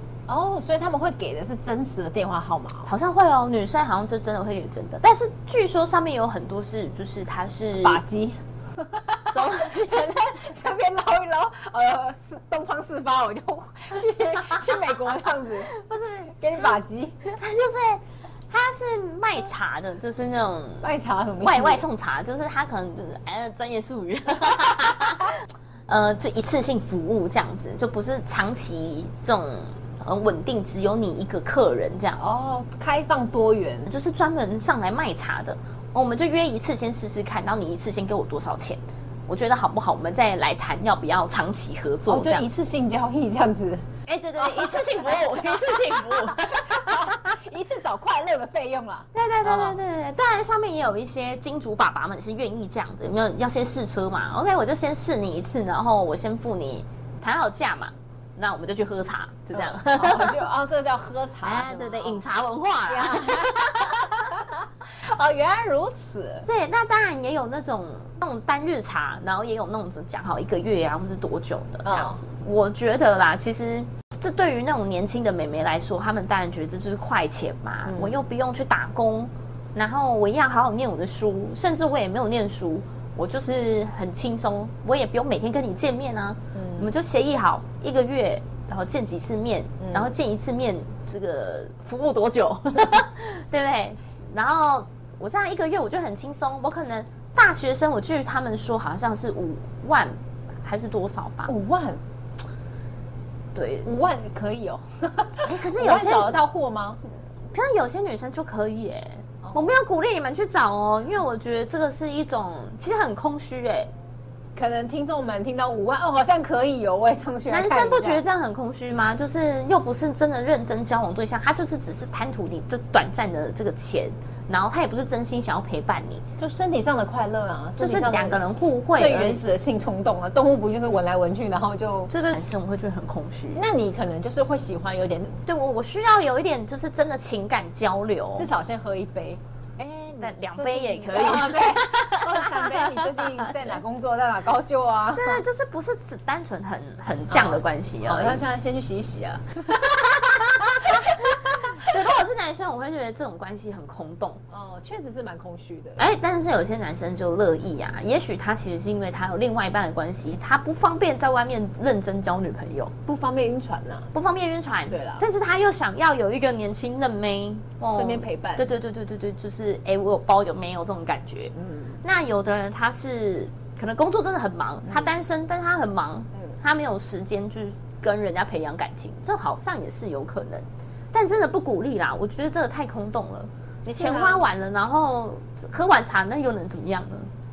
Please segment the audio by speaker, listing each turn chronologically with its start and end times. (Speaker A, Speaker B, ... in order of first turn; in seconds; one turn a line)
Speaker A: 0.3-2.9
Speaker B: 2.9-8.0
Speaker A: 7.8-17.3
Speaker B: 9.3-10.3
Speaker B: 14.1-14.6
Speaker B: 15.7-16.7
Speaker B: 17.2-20.9
Speaker A: 20.8-21.8
Speaker B: 21.4-32.2
Speaker A: 32.2-33.9
Speaker B: 33.9-42.5
Speaker A: 42.1-49.8
Speaker B: 44.0-47.4
Speaker B: 49.1-60.5
Speaker A: 59.5-62.2
Speaker B: 61.4-64.2
Speaker A: 62.9-66.5
Speaker B: 66.4-101.5
Speaker A: 71.8-72.2
Speaker A: 77.8-78.2
Speaker A: 86.5-86.9
Speaker A: 89.8-90.1
Speaker A: 101.5-102.0
Speaker B: 103.5-103.9
Speaker A: 103.8-107.0
Speaker B: 105.4-106.3
Speaker B: 107.5-113.9
Speaker A: 109.4-109.7
Speaker A: 114.5-118.2
Speaker B: 117.5-126.2
Speaker A: 126.4-132.1
Speaker B: 127.8-129.4
Speaker B: 132.1-133.6
Speaker A: 133.5-135.4
Speaker B: 135.4-138.5
Speaker A: 138.3-145.4
Speaker B: 140.1-143.7
Speaker B: 145.1-148.4
Speaker A: 147.3-151.2
Speaker B: 149.8-154.4
Speaker A: 154.5-156.1
Speaker B: 156.0-162.9
Speaker A: 163.1-164.1
Speaker B: 164.1-187.3
Speaker A: 164.9-165.2
Speaker A: 167.8-168.7
Speaker A: 171.6-172.0
Speaker A: 183.8-184.5